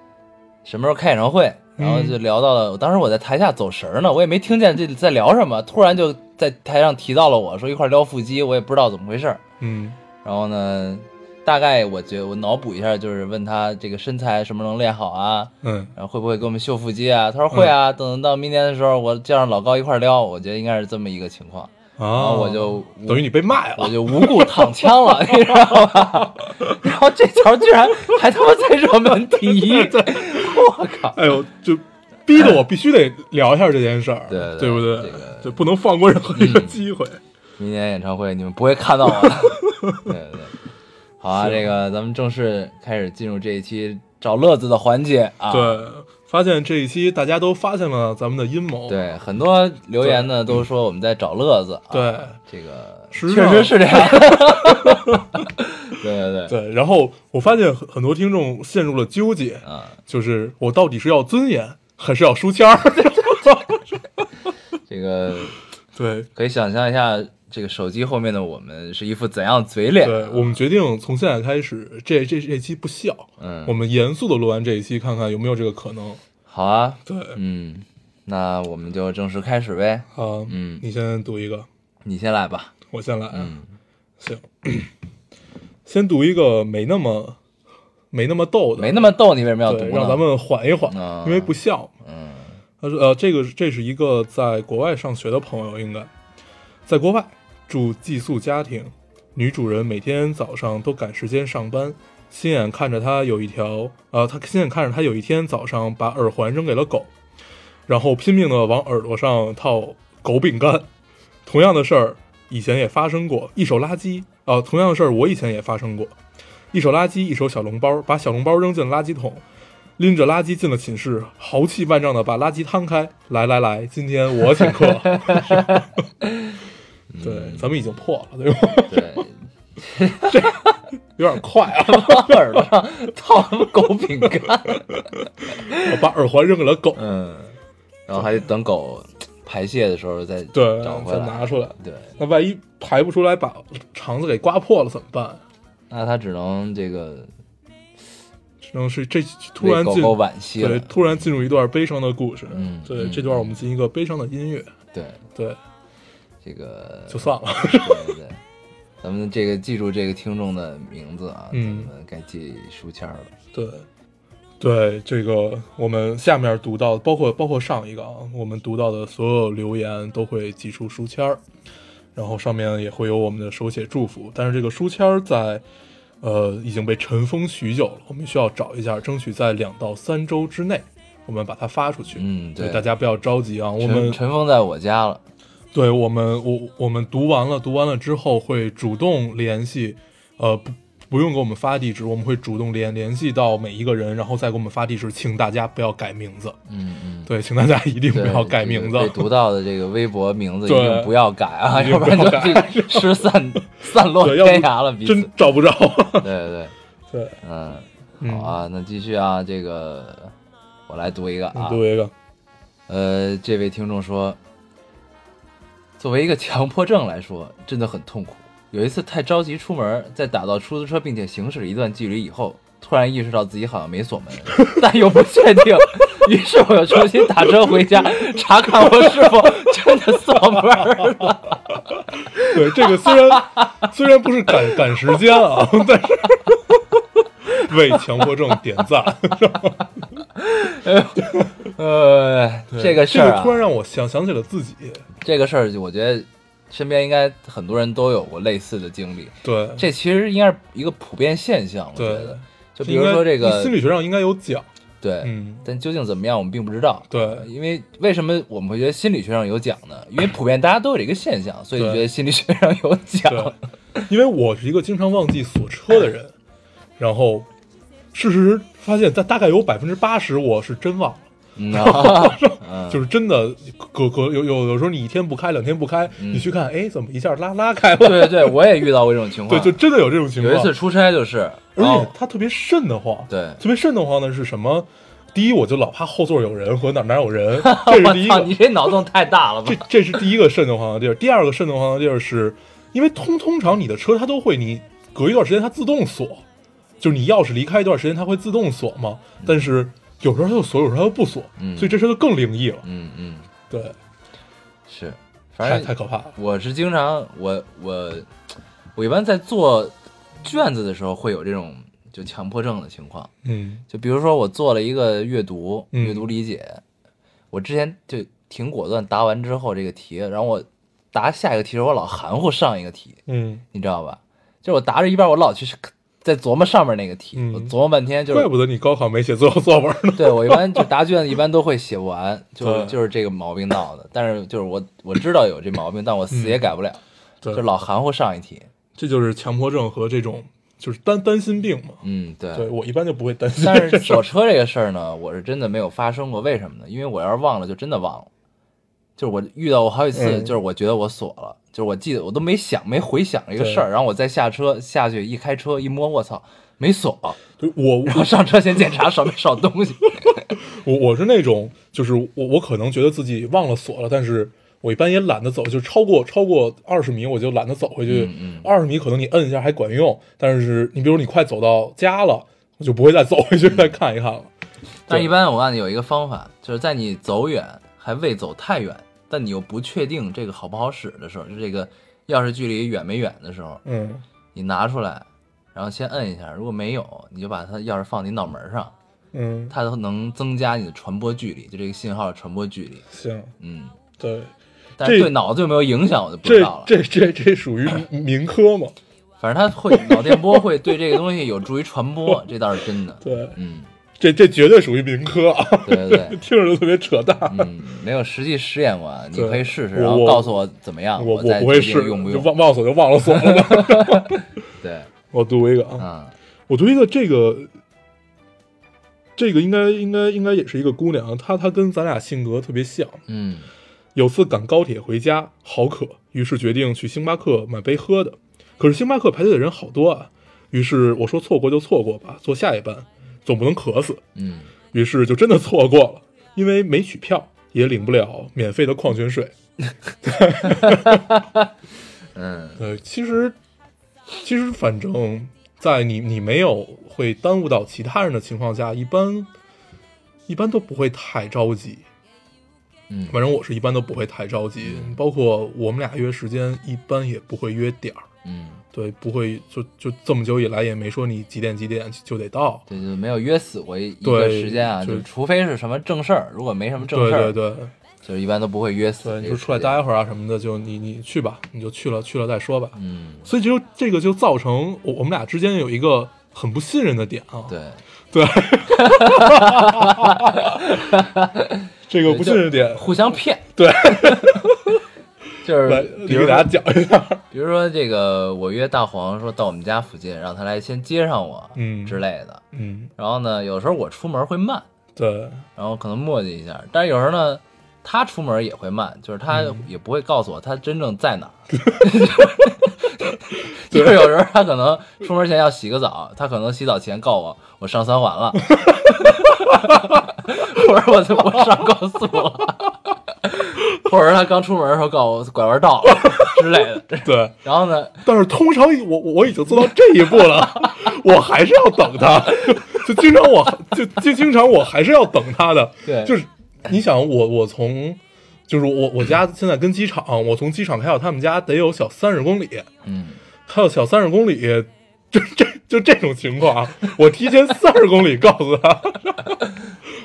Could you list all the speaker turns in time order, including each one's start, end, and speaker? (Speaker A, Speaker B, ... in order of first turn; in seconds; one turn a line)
Speaker A: 0.6-9.4
Speaker B: 1.8-2.2
Speaker B: 9.6-10.0
Speaker A: 10.2-31.2
Speaker B: 15.6-15.9
Speaker B: 22.0-26.3
Speaker B: 29.4-37.2
Speaker A: 34.3-35.7
Speaker A: 36.3-36.8
Speaker A: 37.6-40.5
Speaker B: 39.2-40.1
Speaker A: 41.2-45.8
Speaker B: 41.3-41.7
Speaker B: 45.5-49.1
Speaker A: 48.9-56.5
Speaker B: 50.0-50.6
Speaker B: 51.9-52.4
Speaker B: 53.1-55.3
Speaker B: 56.5-63.9
Speaker A: 59.6-60.0
Speaker A: 64.9-65.6
Speaker B: 65.9-66.3
Speaker A: 66.3-70.6
Speaker B: 70.0-76.2
Speaker A: 73.4-73.8
Speaker A: 76.5-80.8
Speaker B: 77.0-77.4
Speaker B: 80.1-81.7
Speaker A: 82.0-82.7
Speaker B: 82.9-83.5
Speaker A: 83.3-83.7
Speaker B: 84.2-84.9
Speaker B: 85.8-87.4
Speaker B: 88.1-89.1
Speaker A: 88.8-90.3
Speaker B: 89.6-91.9
Speaker A: 90.9-92.6
Speaker B: 92.8-96.1
Speaker B: 96.8-107.1
Speaker B: 107.9-110.9
Speaker B: 111.5-116.1
Speaker B: 116.7-119.4
Speaker B: 120.0-125.9
Speaker A: 125.0-126.5
Speaker A: 127.1-127.7
Speaker B: 127.2-129.2
Speaker A: 128.9-130.8
Speaker B: 130.3-130.6
Speaker B: 131.2-132.7
Speaker A: 131.8-134.8
Speaker A: 135.5-135.9
Speaker B: 135.7-137.0
Speaker A: 136.9-142.1
Speaker B: 140.5-145.4
Speaker A: 145.9-147.3
Speaker B: 148.6-154.7
Speaker A: 149.6-150.9
Speaker A: 152.5-153.6
Speaker A: 154.9-155.2
Speaker B: 155.3-155.6
Speaker A: 156.4-158.4
Speaker B: 157.1-158.2
Speaker A: 159.0-163.3
Speaker B: 161.5-161.9
Speaker B: 163.5-163.8
Speaker B: 164.6-171.4
Speaker B: 172.1-175.6
Speaker B: 176.2-184.2
Speaker A: 182.2-182.9
Speaker A: 183.8-185.2
Speaker B: 185.7-196.6
Speaker A: 196.7-197.3
Speaker B: 197.2-199.3
Speaker A: 198.1-205.3
Speaker B: 200.6-203.3
Speaker B: 204.0-206.3
Speaker A: 206.2-206.7
Speaker B: 207.1-207.3
Speaker A: 207.4-210.3
Speaker B: 208.2-208.6
Speaker A: 210.9-211.8
Speaker B: 211.5-212.1
Speaker A: 212.9-214.4
Speaker A: 216.0-231.8
Speaker B: 227.7-227.9
Speaker B: 228.8-229.3
Speaker A: 232.3-233.9
Speaker B: 232.4-239.8
Speaker A: 234.9-235.2
Speaker A: 240.3-243.6
Speaker B: 242.7-245.0
Speaker A: 245.2-253.8
Speaker B: 249.4-249.8
Speaker B: 251.9-254.7
Speaker A: 255.0-264.0
Speaker B: 255.2-255.7
Speaker B: 257.1-257.5
Speaker B: 261.8-262.1
Speaker B: 263.3-263.6
Speaker B: 264.1-266.3
Speaker B: 267.0-267.5
Speaker B: 268.1-278.6
Speaker A: 271.6-273.0
Speaker A: 276.2-276.5
Speaker A: 278.0-279.8
Speaker B: 279.5-280.7
Speaker A: 280.4-282.1
Speaker B: 281.8-288.9
Speaker A: 283.3-283.6
Speaker A: 287.6-290.1
Speaker B: 289.6-296.4
Speaker B: 297.0-302.8
Speaker A: 299.4-299.6
Speaker A: 301.6-302.0
Speaker A: 302.8-303.5
Speaker B: 303.7-304.0
Speaker A: 304.9-308.3
Speaker B: 305.6-306.3
Speaker A: 308.9-313.3
Speaker B: 313.4-313.8
Speaker A: 313.9-316.8
Speaker B: 315.9-316.3
Speaker A: 317.5-323.2
Speaker B: 323.3-323.6
Speaker A: 323.7-328.5
Speaker B: 327.3-327.7
Speaker B: 328.3-330.9
Speaker A: 330.1-338.7
Speaker B: 332.6-333.0
Speaker B: 336.3-336.6
Speaker B: 338.9-342.0
Speaker A: 342.0-342.7
Speaker B: 342.5-344.2
Speaker A: 343.5-348.3
Speaker A: 349.2-357.4
Speaker B: 350.1-350.5
Speaker B: 353.6-353.8
Speaker B: 357.6-358.4
Speaker A: 358.1-360.5
Speaker B: 360.2-374.5
Speaker A: 368.1-368.7
Speaker A: 375.1-383.8
Speaker B: 383.8-384.2
Speaker A: 384.5-388.9
Speaker B: 389.3-389.7
Speaker A: 389.7-393.0
Speaker B: 393.1-393.5
Speaker A: 393.6-394.0
Speaker B: 394.2-395.3
Speaker A: 395.0-396.9
Speaker B: 396.4-398.9
Speaker A: 399.4-403.9
Speaker B: 399.9-400.7
Speaker B: 403.2-403.6
Speaker B: 404.2-407.7
Speaker A: 405.8-406.4
Speaker A: 407.5-412.5
Speaker B: 409.3-410.6
Speaker B: 411.2-414.4
Speaker A: 413.3-415.1
Speaker B: 415.3-416.1
Speaker A: 416.0-416.3
Speaker B: 416.7-417.7
Speaker B: 419.4-423.2
Speaker A: 423.3-423.7
Speaker B: 424.1-434.2
Speaker A: 434.3-434.7
Speaker B: 434.9-439.5
Speaker B: 440.2-441.2
Speaker A: 442.3-442.8
Speaker B: 442.8-443.6
Speaker B: 444.4-449.5
Speaker B: 450.5-452.0
Speaker A: 453.1-453.4
Speaker B: 453.3-458.2
Speaker A: 454.8-455.2
Speaker A: 458.4-458.8
Speaker B: 458.9-462.8
Speaker A: 462.9-467.6
Speaker B: 464.2-465.2
Speaker B: 467.0-467.9
Speaker A: 468.2-470.0
Speaker B: 469.2-477.7
Speaker A: 472.9-473.5
Speaker A: 477.7-478.0
Speaker B: 478.3-480.9
Speaker A: 478.9-484.7
Speaker B: 482.1-483.2
Speaker B: 483.8-485.0
Speaker A: 485.6-486.7
Speaker B: 485.8-487.4
Speaker A: 487.5-492.6
Speaker B: 491.8-492.2
Speaker B: 492.7-493.1
Speaker A: 493.2-494.9
Speaker B: 495.1-495.6
Speaker A: 495.7-518.2
Speaker B: 499.5-499.8
Speaker B: 501.8-502.1
Speaker B: 503.9-504.4
Speaker B: 508.8-509.9
Speaker B: 517.2-517.6
Speaker B: 518.2-532.9
Speaker A: 526.0-526.4
Speaker A: 533.0-533.4
Speaker B: 533.7-539.6